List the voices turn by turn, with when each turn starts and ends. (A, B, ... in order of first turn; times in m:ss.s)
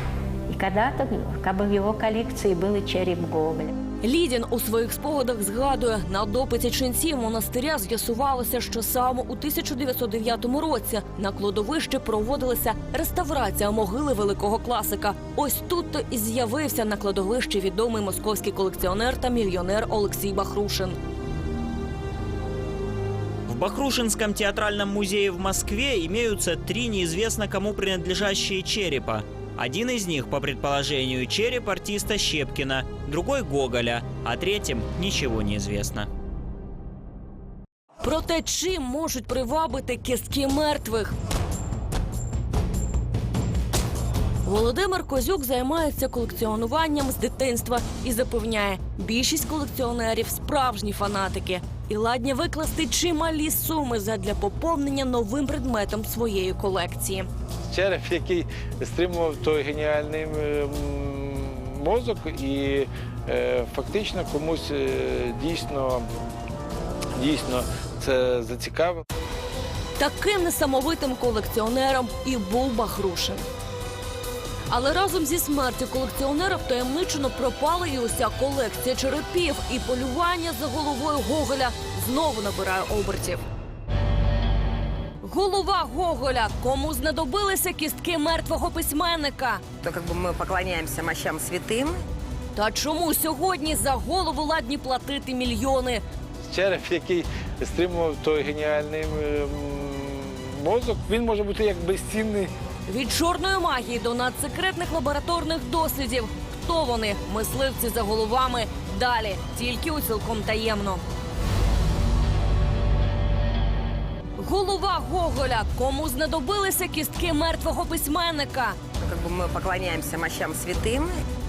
0:00.5-0:03.8 A
0:04.0-0:21.0 B
0:23.5-0:36.1 C
0:38.0-0:41.2 B
0:44.4-0:57.3 B
0:57.7-1:06.1 D
1:07.2-1:09.0 D
1:10.0-1:13.5 B
1:14.7-1:23.4 B
1:25.2-1:29.6 B
1:29.8-1:32.0 E
1:32.6-1:36.0 B
1:36.5-1:42.5 D
1:42.9-1:51.0 B
1:54.4-1:58.8 B
1:59.0-2:01.1 E